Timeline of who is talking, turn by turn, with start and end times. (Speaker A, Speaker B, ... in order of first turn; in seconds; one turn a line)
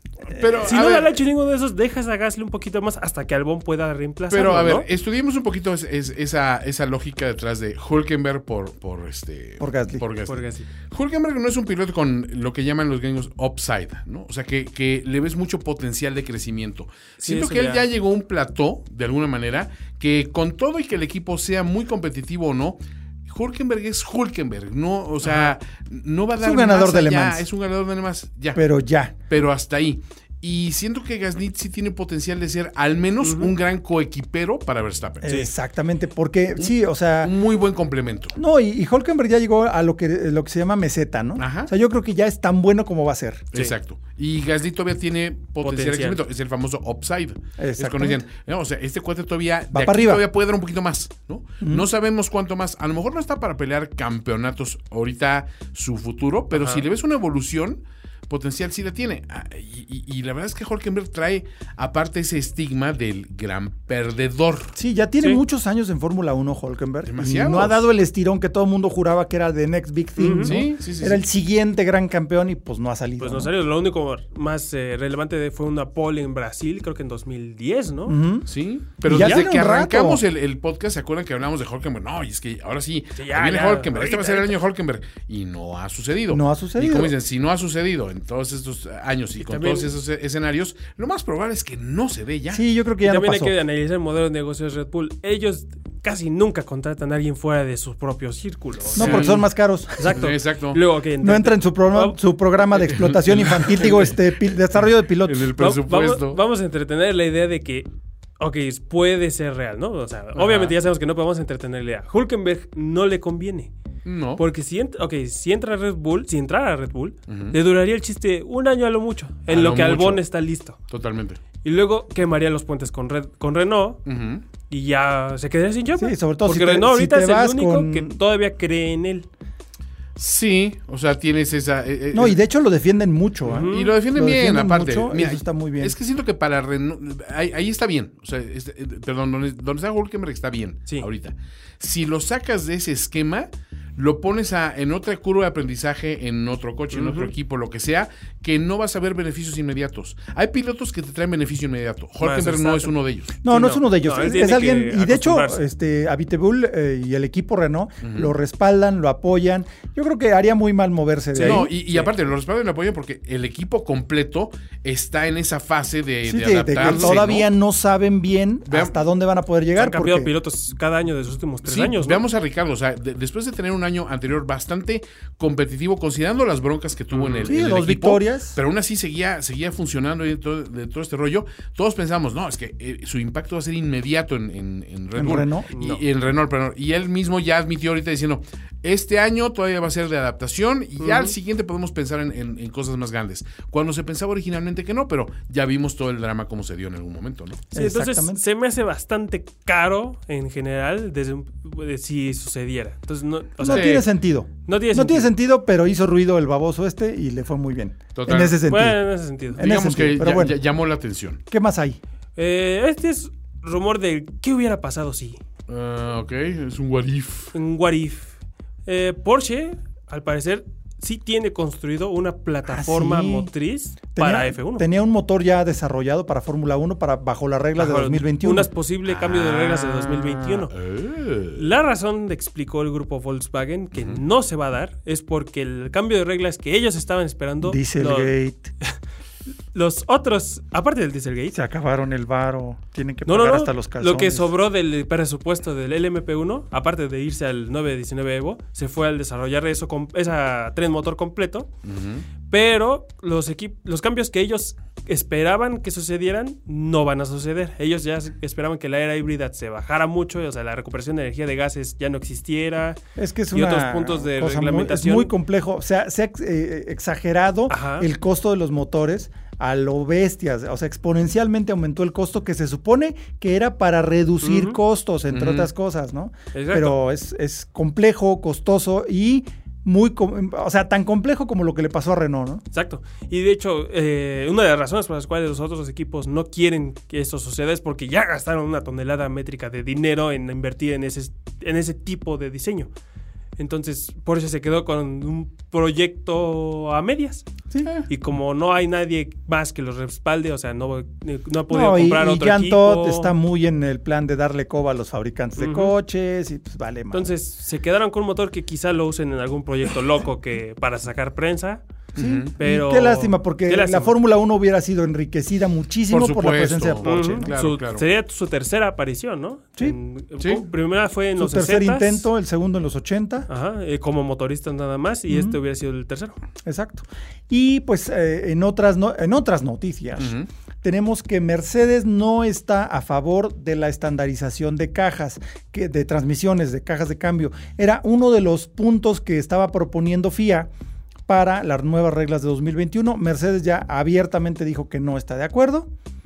Speaker A: 0.3-1.2
Speaker B: 0.4-4.8
Speaker A: 4.3-28.6
Speaker C: 9.6-10.0
Speaker B: 10.3-10.7
Speaker B: 17.2-17.8
Speaker C: 26.4-27.4
Speaker C: 28.6-29.1
Speaker A: 29.3-35.5
Speaker B: 33.2-33.5
Speaker C: 35.2-37.3
Speaker A: 37.2-38.4
Speaker C: 38.4-43.5
Speaker A: 41.4-41.7
Speaker A: 43.5-64.7
Speaker B: 45.6-46.2
Speaker C: 47.6-48.2
Speaker C: 49.7-50.2
Speaker C: 51.6-51.9
Speaker B: 56.5-56.8
Speaker C: 64.8-73.5
Speaker A: 67.0-67.8
Speaker B: 70.2-70.6
Speaker A: 70.4-71.2
Speaker B: 73.2-78.2
Speaker C: 78.1-78.5
Speaker A: 78.5-92.6
Speaker C: 79.0-80.2
Speaker B: 79.1-79.4
Speaker B: 83.2-84.5
Speaker C: 86.3-87.1
Speaker B: 89.4-89.9
Speaker C: 92.5-93.5
Speaker B: 93.0-99.4
Speaker A: 98.9-99.4
Speaker C: 99.0-100.2
Speaker B: 100.0-102.2
Speaker A: 100.0-100.8
Speaker C: 101.2-105.5
Speaker A: 102.9-104.2
Speaker A: 105.2-106.4
Speaker B: 105.6-113.7
Speaker A: 110.3-110.8
Speaker A: 114.0-114.4
Speaker B: 114.4-120.8
Speaker A: 117.3-117.5
Speaker A: 119.5-120.2
Speaker A: 120.9-121.4
Speaker B: 121.6-124.0
Speaker A: 124.0-124.4
Speaker B: 124.7-129.3
Speaker C: 126.0-128.2
Speaker A: 130.2-132.4
Speaker C: 132.1-135.9
Speaker B: 133.4-133.9
Speaker A: 133.5-153.3
Speaker B: 146.9-147.3
Speaker B: 152.2-155.6
Speaker C: 153.4-161.7
Speaker A: 158.0-158.3
Speaker B: 161.3-162.1
Speaker A: 161.4-167.5
Speaker C: 166.2-170.3
Speaker B: 166.8-167.2
Speaker A: 168.7-169.0
Speaker B: 169.8-172.2
Speaker A: 171.7-197.6
Speaker B: 177.1-177.5
Speaker C: 177.4-178.6
Speaker C: 185.1-185.7
Speaker B: 185.7-186.0
Speaker B: 191.0-191.3
Speaker B: 197.7-204.0
Speaker C: 197.7-198.4
Speaker C: 203.6-209.0
Speaker A: 203.6-204.0
Speaker B: 204.7-205.3
Speaker A: 208.1-208.6
Speaker B: 208.6-209.6
Speaker C: 209.5-210.6
Speaker A: 209.6-211.4
Speaker C: 211.5-212.0
Speaker B: 212.4-215.4
Speaker A: 215.7-217.5
Speaker B: 217.5-218.3
Speaker B: 218.8-224.8
Speaker C: 222.7-223.5
Speaker C: 224.1-228.7
Speaker B: 227.8-230.7
Speaker A: 229.1-231.6
Speaker B: 231.6-238.3
Speaker A: 233.9-234.2
Speaker C: 237.6-238.7
Speaker B: 239.7-241.6
Speaker C: 241.5-244.5
Speaker B: 243.2-251.7
Speaker A: 251.8-252.2
Speaker B: 252.5-263.0
Speaker C: 263.2-282.6
Speaker B: 263.5-265.3
Speaker B: 267.7-268.1
Speaker B: 274.4-274.8
Speaker A: 275.3-275.7
Speaker B: 276.5-277.0
Speaker B: 282.7-292.9
Speaker B: 293.6-297.5
Speaker B: 298.1-303.3
Speaker C: 301.7-307.3
Speaker B: 305.6-305.9
Speaker B: 307.1-311.8
Speaker A: 312.1-312.5
Speaker C: 312.1-317.5
Speaker B: 312.6-314.1
Speaker A: 316.1-318.0
Speaker B: 317.0-322.3
Speaker A: 320.4-320.6
Speaker C: 321.4-323.5
Speaker B: 323.5-326.4
Speaker C: 325.3-325.6
Speaker C: 326.6-340.7
Speaker A: 330.2-330.5
Speaker C: 341.3-345.9